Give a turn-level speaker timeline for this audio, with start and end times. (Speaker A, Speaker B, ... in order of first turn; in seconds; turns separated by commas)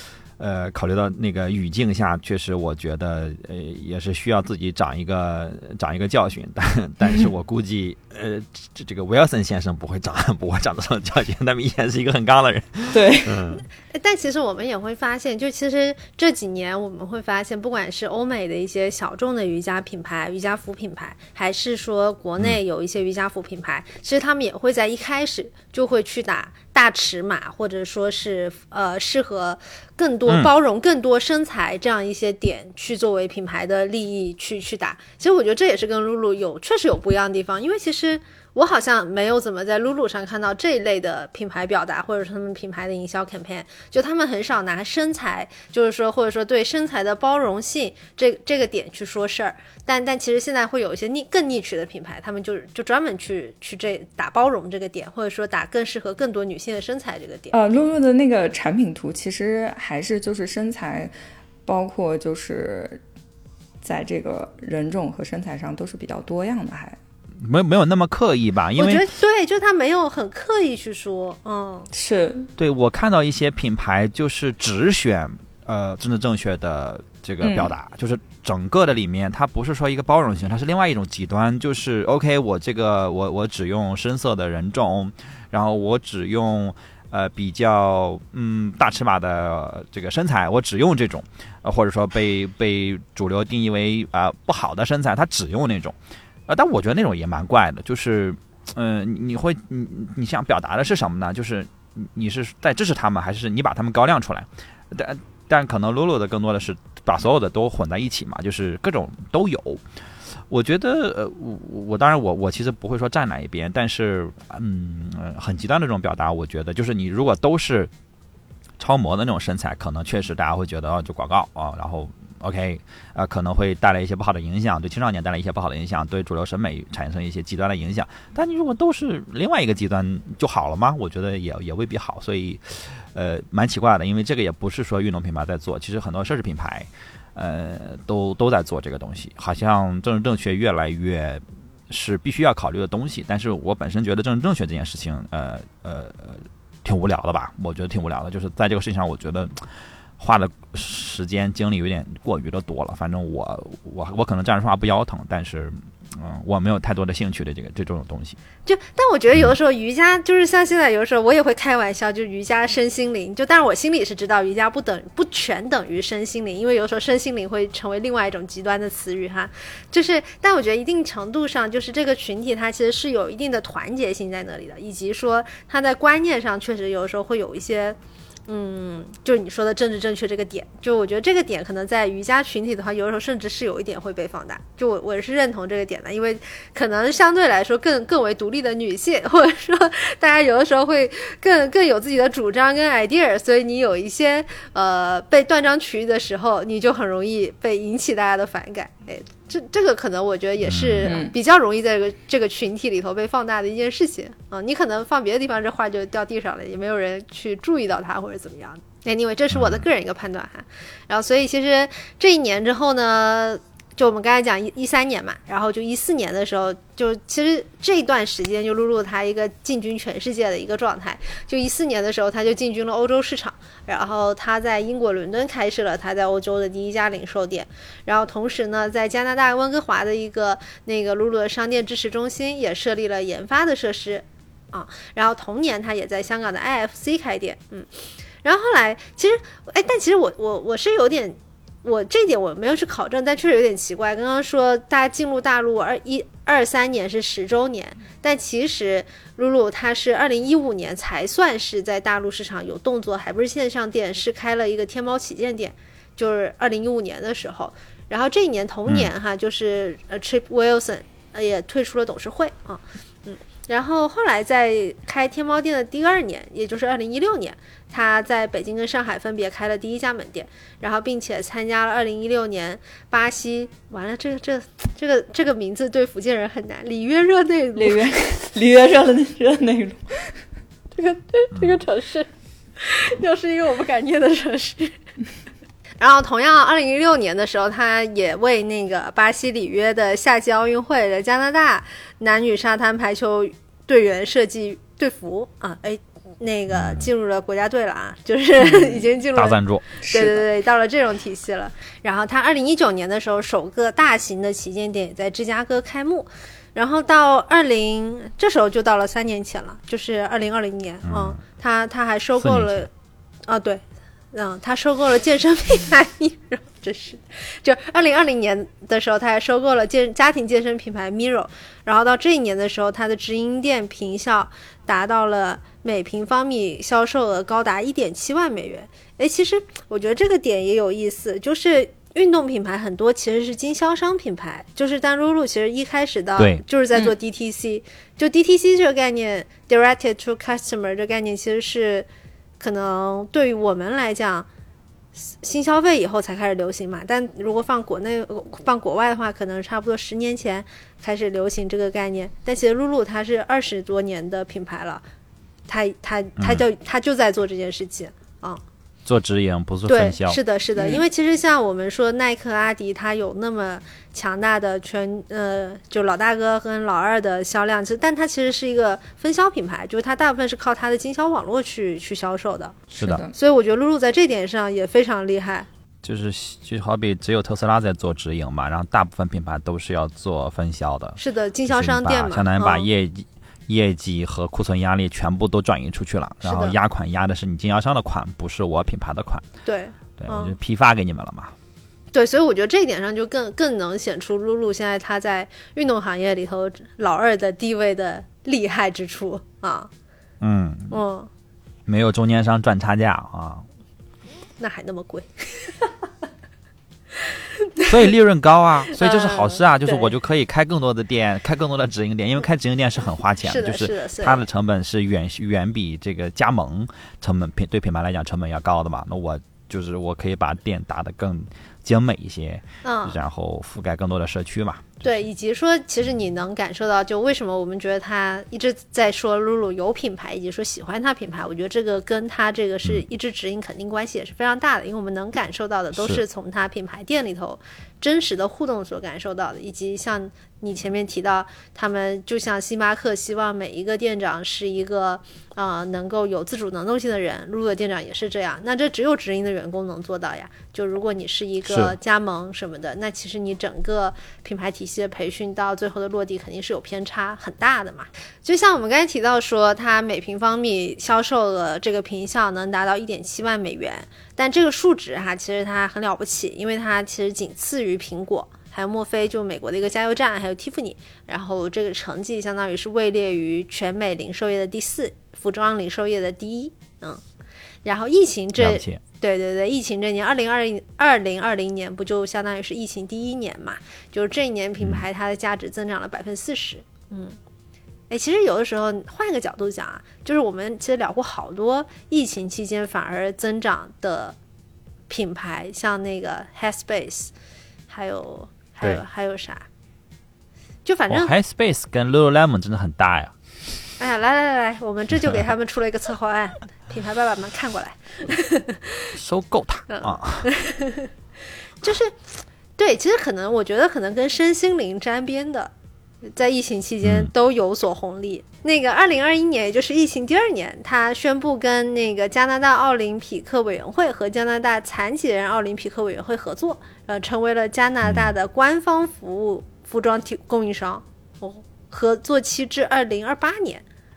Speaker A: 0.4-13.6, Speaker B: 12.9-13.5, Speaker C: 13.9-57.5, Speaker B: 57.5-61.1, Speaker B: 61.6-63.0, Speaker B: 63.8-67.0, Speaker A: 67.4-69.1, Speaker C: 68.8-71.9, Speaker B: 71.9-72.5, Speaker A: 72.6-96.0, Speaker B: 77.4-77.7, Speaker A: 96.5-109.8, Speaker A: 110.5-117.9, Speaker A: 118.8-149.7, Speaker A: 150.2-158.4, Speaker C: 158.6-237.9, Speaker A: 200.6-201.1, Speaker B: 201.0-201.3, Speaker A: 209.5-209.8, Speaker C: 238.4-278.0, Speaker B: 277.8-280.4, Speaker C: 281.0-282.3, Speaker C: 282.8-284.9, Speaker C: 286.0-312.9, Speaker A: 296.7-297.1, Speaker A: 299.3-300.1, Speaker B: 300.1-300.3, Speaker A: 311.0-311.4, Speaker A: 312.4-312.9, Speaker C: 313.5-342.1, Speaker A: 336.4-336.6, Speaker C: 342.6-344.5, Speaker C: 345.4-355.0, Speaker C: 355.7-358.6, Speaker A: 356.4-356.6, Speaker A: 359.1-360.4, Speaker C: 359.9-372.8, Speaker A: 372.9-373.2, Speaker B: 373.0-373.3, Speaker C: 373.3-375.7, Speaker A: 376.0-389.4, Speaker C: 381.2-382.9, Speaker C: 386.4-386.8, Speaker C: 389.6-390.5, Speaker A: 390.2-391.5, Speaker C: 392.1-399.9, Speaker A: 400.4-401.0, Speaker C: 400.9-401.3, Speaker A: 401.9-403.6, Speaker C: 404.6-405.9, Speaker C: 407.2-407.9, Speaker A: 407.9-425.2, Speaker C: 408.9-410.1, Speaker C: 413.4-414.5, Speaker C: 422.8-423.2, Speaker C: 425.0-477.2, Speaker A: 436.0-436.2, Speaker A: 451.7-451.9, Speaker C: 477.8-487.4, Speaker A: 478.6-479.0, Speaker C: 488.1-494.4, Speaker C: 495.1-497.3, Speaker C: 497.9-499.6, Speaker C: 500.8-501.3, Speaker A: 501.1-503.3, Speaker C: 504.0-509.1, Speaker A: 505.2-505.5, Speaker A: 509.1-510.5, Speaker C: 509.9-511.1, Speaker C: 511.8-512.2, Speaker C: 512.8-515.7, Speaker C: 516.2-533.8, Speaker A: 517.0-517.3, Speaker A: 528.0-528.3